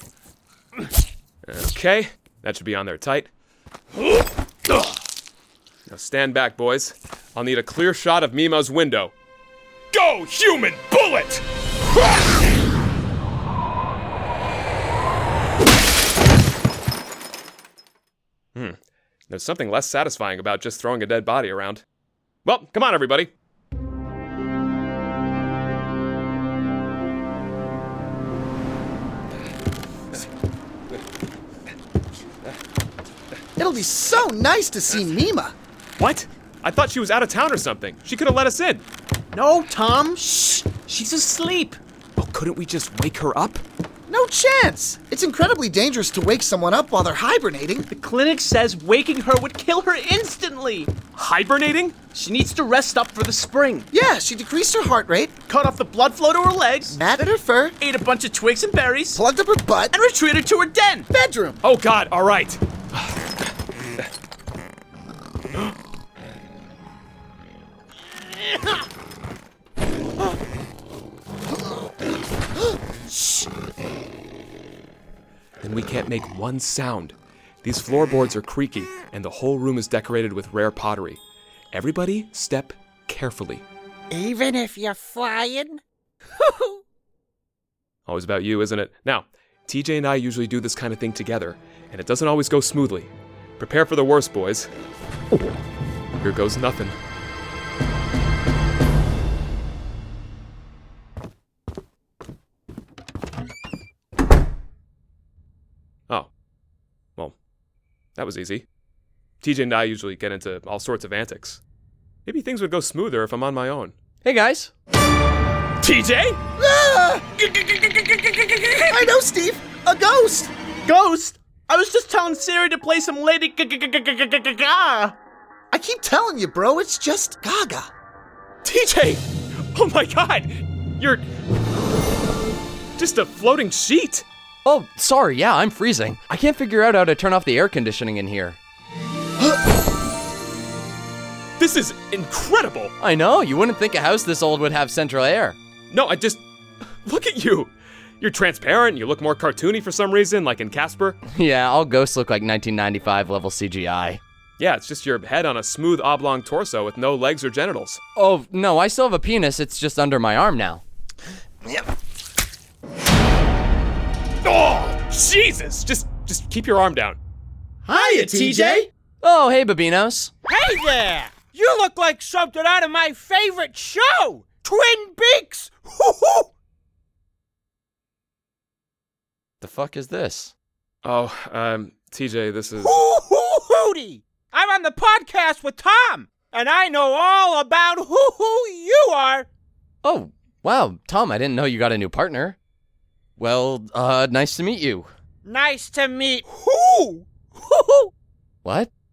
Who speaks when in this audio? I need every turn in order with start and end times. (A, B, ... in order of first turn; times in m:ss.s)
0:01.4-0:03.3 A
0:05.9-0:09.1 A
0:09.9-0:11.4 A
0:19.3-0:21.8 A
0:22.4-0:23.3 A
0:33.6-0:35.5 B
0:36.0-0:38.8 A
0:39.3-0:41.8 C
0:42.2-0:43.6 A
0:44.1-0:47.9 B
0:47.9-0:50.9 C
0:51.2-0:51.9 A
0:52.1-0:53.9 C
0:53.9-0:55.3 B
0:55.5-0:57.0 C
0:56.9-0:57.8 B
0:57.8-0:59.2 C
0:59.1-1:00.0 B
0:59.9-1:01.1 C
1:01.1-1:01.6 B
1:01.6-1:03.1 A
1:15.6-1:21.2 A
1:21.7-1:23.6 A
1:24.1-1:25.8 D
1:26.4-1:26.8 D
1:28.1-1:34.7 A
1:36.2-1:37.0 A
1:48.2-1:48.6 A
1:49.4-1:51.6 A
1:52.2-1:53.9 A
1:54.2-1:54.7 E
1:55.8-1:56.2 A
1:56.6-1:57.2 B
1:57.7-1:58.2 C
1:58.9-2:00.5 B
2:00.8-2:05.2 C
2:05.7-2:07.9 B
2:08.6-2:09.2 A
2:09.7-2:11.2 A
2:13.0-2:14.2 A
2:14.6-2:18.6 E
2:21.6-2:22.9 A
2:23.0-2:25.6 E
2:25.9-2:26.4 A
2:27.0-2:31.2 A
2:31.3-2:34.2 E
2:34.6-2:38.0 A
2:38.2-2:40.8 E
2:44.4-2:47.2 A
2:47.9-2:48.9 C
2:47.9-2:48.8 B
2:49.2-2:50.3 E
2:50.5-2:56.5 D
2:59.6-3:00.5 E
3:01.0-3:03.0 A
3:02.8-3:09.5 D
3:10.0-3:12.6 E
3:13.4-3:15.1 E
3:15.4-3:18.1 D
3:18.6-3:18.9 E